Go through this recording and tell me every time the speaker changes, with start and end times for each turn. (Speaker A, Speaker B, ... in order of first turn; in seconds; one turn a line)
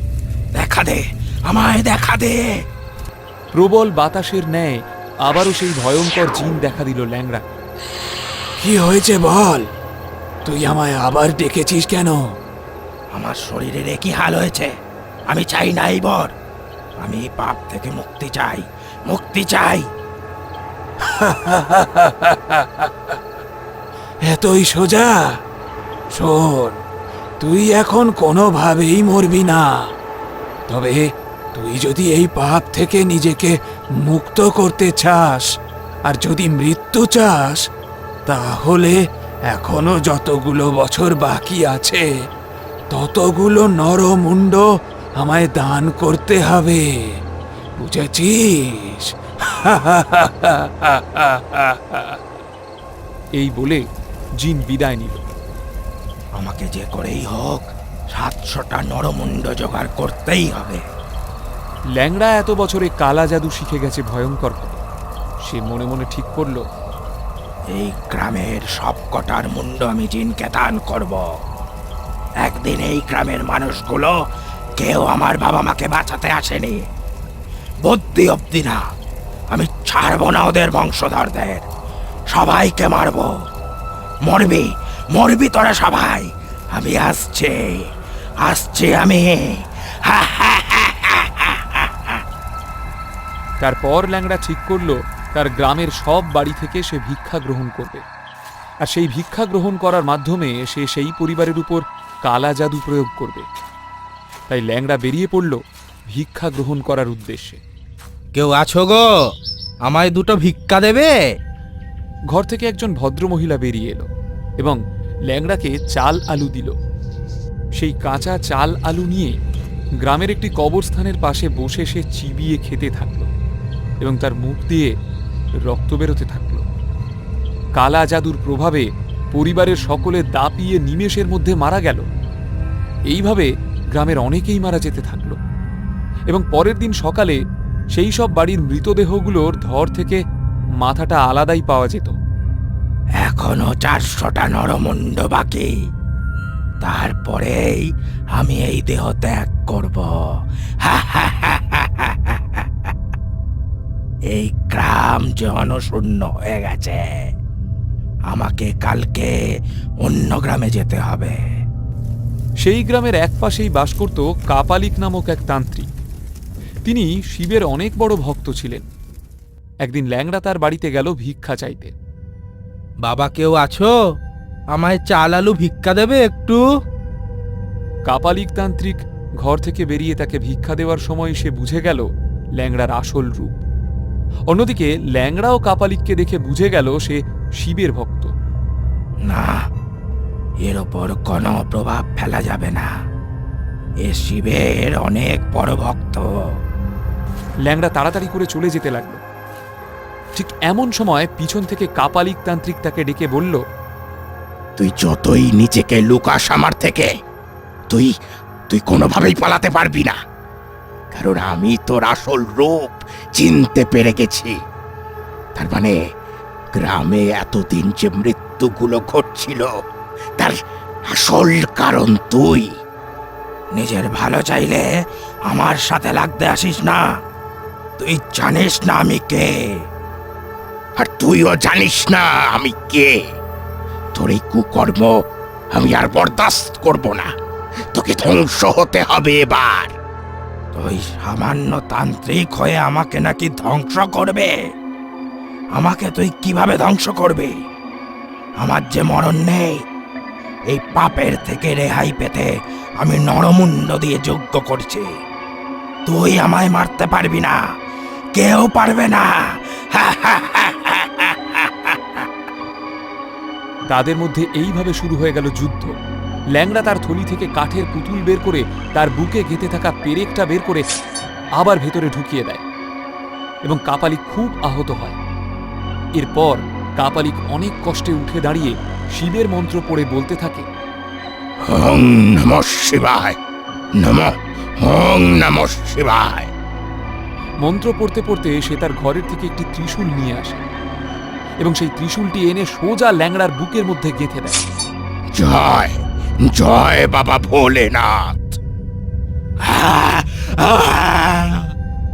Speaker A: 0.5-2.5
Speaker B: 3.5-7.4
Speaker C: 8.6-9.7
Speaker C: 10.4-12.2
Speaker A: 13.1-14.7
Speaker A: 15.3-16.3
Speaker A: 17.0-19.9
Speaker C: 21.0-23.2
Speaker C: 24.2-25.3
Speaker C: 26.1-26.8
Speaker C: 27.4-29.7
Speaker C: 30.7-35.5
Speaker C: 36.0-37.6
Speaker C: 38.2-39.0
Speaker C: 39.5-42.0
Speaker C: 42.9-44.7
Speaker C: 45.2-46.9
Speaker C: 47.8-52.2
Speaker B: 53.4-53.8
Speaker B: 54.4-55.3
Speaker A: 56.4-60.8
Speaker B: 62.0-64.8
Speaker B: 65.4-66.6
Speaker A: 67.7-71.3
Speaker A: 72.4-74.1
Speaker A: 74.8-76.8
Speaker A: 77.8-78.8
Speaker A: 79.5-81.6
Speaker A: 82.3-83.3
Speaker A: 84.2-87.5
Speaker A: 88.4-92.1
Speaker B: 93.6-98.0
Speaker B: 98.8-103.5
Speaker B: 104.5-107.6
Speaker D: 108.3-109.1
Speaker D: 109.8-111.1
Speaker B: 112.3-114.1
Speaker B: 114.6-116.7
Speaker B: 117.8-119.3
Speaker B: 120.0-123.3
Speaker B: 124.0-124.9
Speaker B: 125.6-126.6
Speaker B: 127.8-132.1
Speaker B: 133.1-135.4
Speaker B: 136.3-137.4
Speaker B: 137.9-140.2
Speaker B: 140.8-142.2
Speaker A: 143.2-145.7
Speaker A: 146.8-147.8
Speaker A: 148.3-150.1
Speaker A: 150.8-152.9
Speaker A: 154.3-157.2
Speaker A: 158.3-159.3
Speaker A: 160.0-161.3
Speaker B: 162.6-165.9
Speaker B: 166.8-168.8
Speaker B: 169.8-171.9
Speaker D: 173.0-173.9
Speaker D: 174.7-176.6
Speaker B: 178.1-182.1
Speaker B: 182.6-183.6
Speaker B: 184.5-188.3
Speaker A: 189.2-189.6
Speaker A: 190.6-192.9
Speaker A: 194.0-196.2
Speaker B: 197.7-199.2
Speaker B: 200.3-203.6
Speaker E: 204.8-207.1
Speaker E: 208.7-210.2
Speaker E: 211.1-214.5
Speaker E: 215.5-215.9
Speaker E: 216.7-219.7
Speaker E: 221.1-222.7
Speaker A: 223.7-224.8
Speaker A: 225.5-227.0
Speaker A: 228.0-229.5
Speaker E: 231.0-233.2
Speaker E: 234.1-235.1
Speaker E: 235.7-237.3
Speaker E: 237.9-239.9
Speaker A: 240.7-244.5
Speaker A: 245.7-247.5
Speaker A: 248.6-249.7
Speaker A: 250.7-255.1
Speaker A: 256.1-257.6
Speaker A: 258.3-259.3
Speaker A: 259.9-262.0
Speaker B: 263.9-265.9
Speaker B: 266.5-270.9
Speaker B: 271.6-272.6
Speaker B: 273.6-275.2
Speaker B: 276.2-280.6
Speaker E: 281.6-283.4
Speaker E: 284.0-286.5
Speaker B: 287.6-290.6
Speaker B: 291.6-294.6
Speaker E: 295.3-298.6
Speaker E: 299.9-301.6